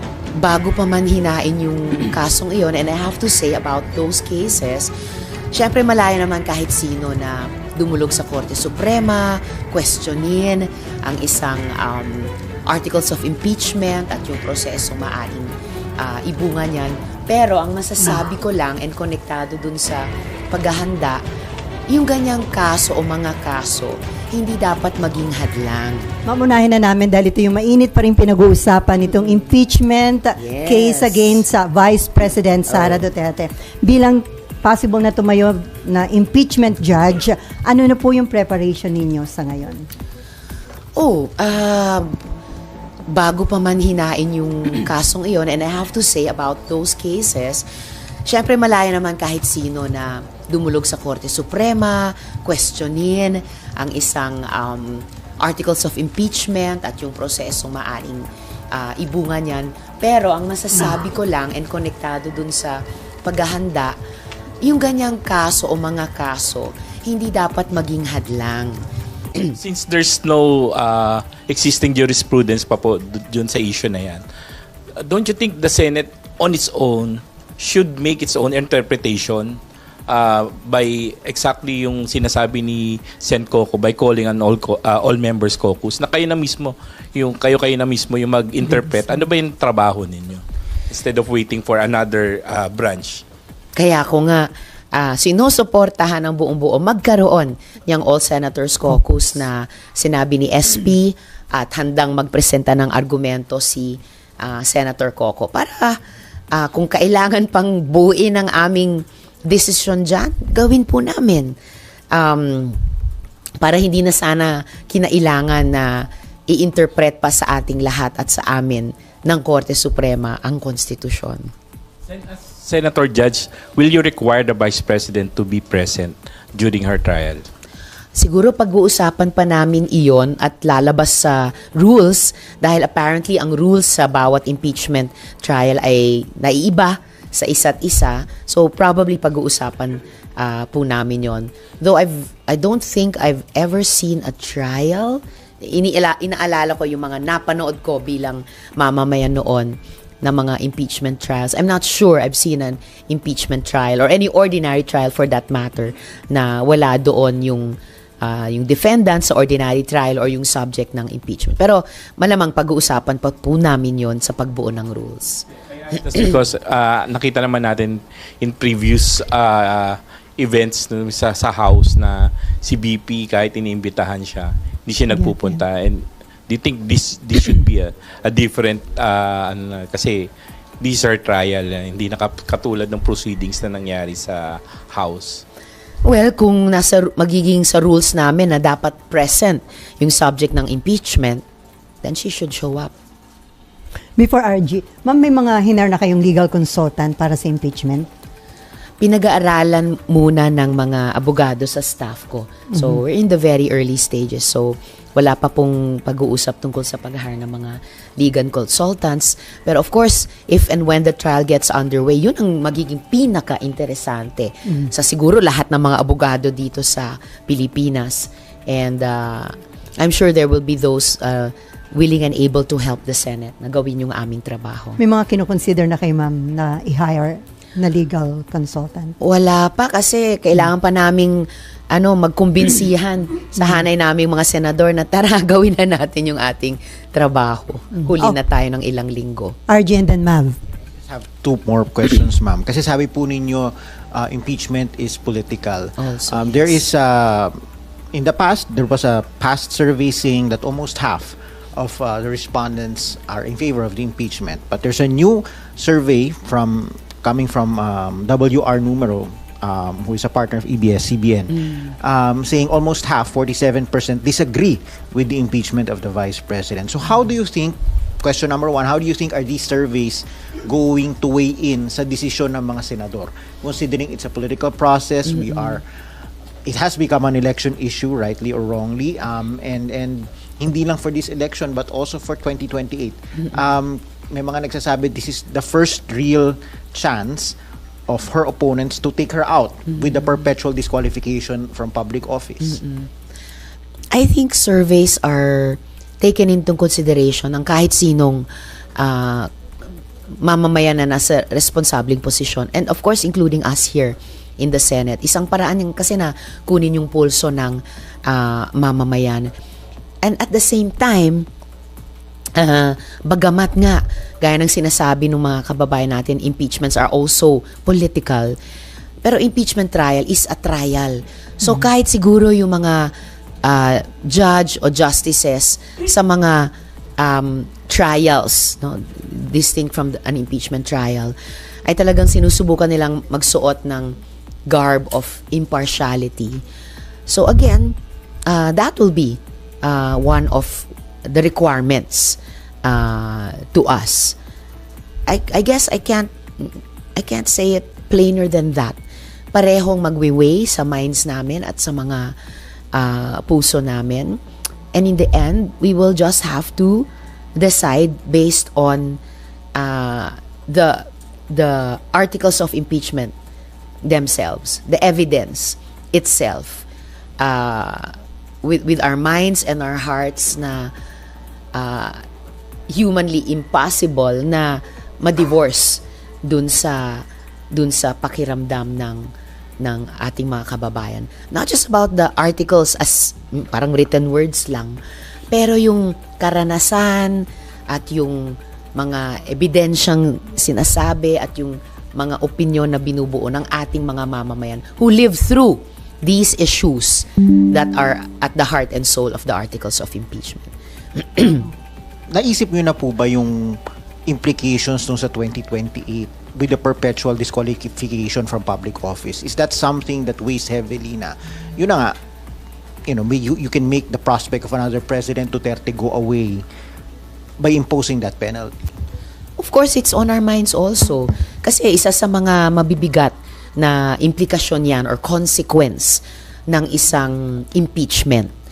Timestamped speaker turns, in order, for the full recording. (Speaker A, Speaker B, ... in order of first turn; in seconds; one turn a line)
Speaker A: 0.3-4.9
Speaker A: 5.5-21.2
Speaker A: 21.9-26.1
Speaker B: 26.2-39.9
Speaker A: 30.4-31.2
Speaker A: 41.0-42.1
Speaker A: 43.1-47.6
Speaker A: 48.2-64.0
Speaker A: 64.6-68.8
Speaker C: 69.5-74.2
Speaker C: 75.0-93.2
Speaker A: 93.8-106.0
Speaker A: 106.5-111.5
Speaker A: 112.1-112.8
Speaker A: 113.6-121.5
Speaker C: 122.0-127.5
Speaker A: 128.1-165.4
Speaker C: 165.7-180.3
Speaker B: 175.2-175.4
Speaker C: 180.8-185.4
Speaker A: 186.0-191.4
Speaker A: 192.0-192.9
Speaker B: 194.2-198.1
Speaker A: 199.0-225.0
Speaker B: 225.0-229.1
Speaker A: 229.2-239.5
Speaker B: 239.7-240.6
Speaker D: 241.0-247.6
Speaker A: 246.0-246.8
Speaker D: 248.1-275.8
Speaker D: 276.6-287.5
Speaker D: 288.1-292.8
Speaker A: 294.1-298.4
Speaker A: 299.0-299.5
Speaker A: 300.4-309.5
Speaker A: 310.2-311.4
Speaker A: 312.6-318.6
Speaker A: 319.2-323.1
Speaker A: 323.6-334.1
Speaker A: 334.7-336.6
Speaker A: 337.3-344.4
Speaker A: 345.3-349.0
Speaker A: 349.5-352.3
Speaker A: 352.9-354.4
Speaker A: 354.9-359.2
Speaker A: 359.7-363.3
Speaker A: 364.0-366.9
Speaker A: 367.4-370.9
Speaker A: 371.7-372.2
Speaker A: 372.9-385.0
Speaker A: 385.5-401.6
Speaker D: 402.3-412.1
Speaker D: 413.1-416.6
Speaker D: 417.6-418.9
Speaker A: 419.6-428.5